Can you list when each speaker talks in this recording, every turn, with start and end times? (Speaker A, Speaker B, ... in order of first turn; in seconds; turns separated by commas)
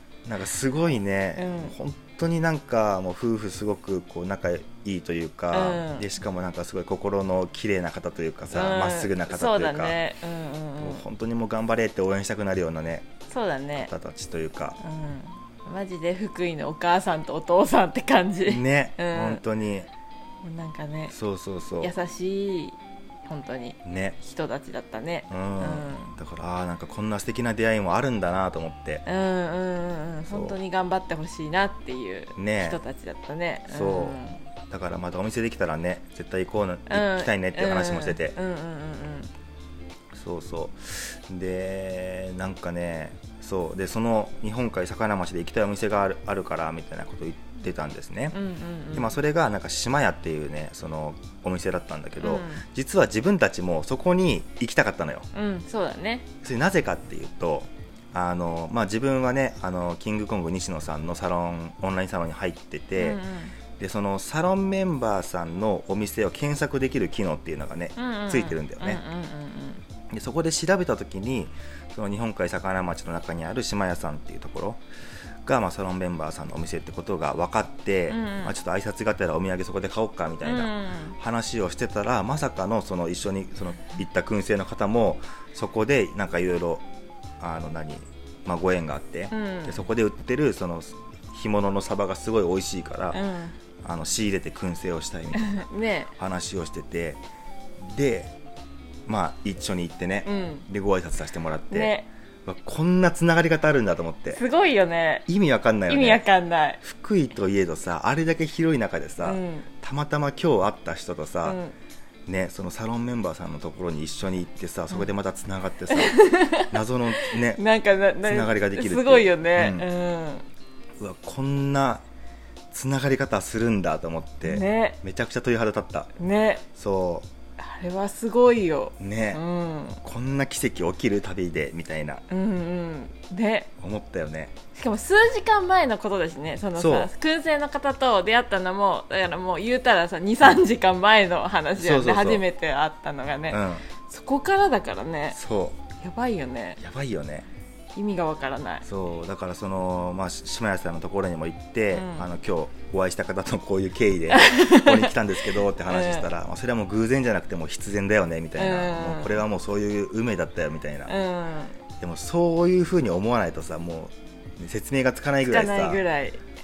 Speaker A: 0.2-10.0, Speaker B: 1.4-1.7, Speaker B: 5.5-6.1, Speaker B: 8.5-11.0, Speaker A: 10.8-13.1, Speaker B: 13.3-13.9, Speaker A: 13.8-14.8, Speaker B: 14.8-19.4, Speaker A: 18.4-19.9, Speaker B: 20.4-21.1, Speaker A: 21.1-21.9, Speaker B: 21.8-26.1, Speaker A: 23.8-24.2, Speaker A: 25.3-29.0, Speaker B: 29.0-34.4, Speaker A: 30.3-30.6, Speaker A: 32.4-32.8, Speaker A: 33.7-34.2, Speaker A: 34.7-38.4, Speaker B: 36.9-39.3, Speaker A: 40.1-48.4, Speaker B: 48.3-49.2, Speaker A: 48.9-55.3, Speaker B: 52.2-52.6, Speaker B: 55.3-56.3, Speaker A: 56.4-63.2, Speaker B: 63.0-63.5, Speaker A: 63.8-69.0, Speaker B: 68.0-69.8, Speaker A: 70.1-74.8, Speaker A: 75.4-86.8, Speaker B: 78.1-78.5, Speaker B: 80.4-81.2, Speaker A: 87.4-93.2, Speaker B: 89.3-89.8, Speaker B: 93.1-93.5, Speaker A: 93.8-97.2, Speaker B: 95.3-96.1, Speaker A: 97.8-98.3, Speaker A: 99.1-101.9, Speaker B: 100.2-100.6, Speaker B: 101.7-102.1, Speaker A: 102.5-104.4, Speaker B: 104.3-105.2, Speaker A: 105.3-106.2, Speaker B: 105.9-106.8, Speaker A: 106.8-111.6, Speaker B: 109.2-109.7, Speaker B: 111.4-111.7, Speaker A: 112.3-117.6, Speaker B: 115.9-120.4, Speaker A: 118.2-119.9, Speaker A: 121.0-122.0, Speaker A: 122.7-126.1, Speaker B: 124.4-125.0, Speaker B: 126.2-126.6, Speaker A: 126.7-127.3, Speaker B: 127.6-130.0, Speaker A: 129.0-129.4, Speaker A: 130.0-132.2, Speaker B: 132.3-133.7, Speaker A: 133.8-134.5, Speaker B: 134.7-145.4, Speaker A: 136.8-137.1, Speaker A: 141.8-142.4, Speaker A: 143.5-143.9, Speaker A: 145.3-145.8, Speaker B: 146.0-146.8, Speaker A: 146.8-147.5, Speaker B: 147.9-148.8, Speaker A: 148.8-161.1, Speaker B: 151.9-152.3, Speaker B: 154.3-155.1, Speaker B: 155.8-156.3, Speaker B: 158.6-159.4, Speaker B: 161.1-161.8, Speaker A: 162.0-166.0, Speaker B: 165.4-166.4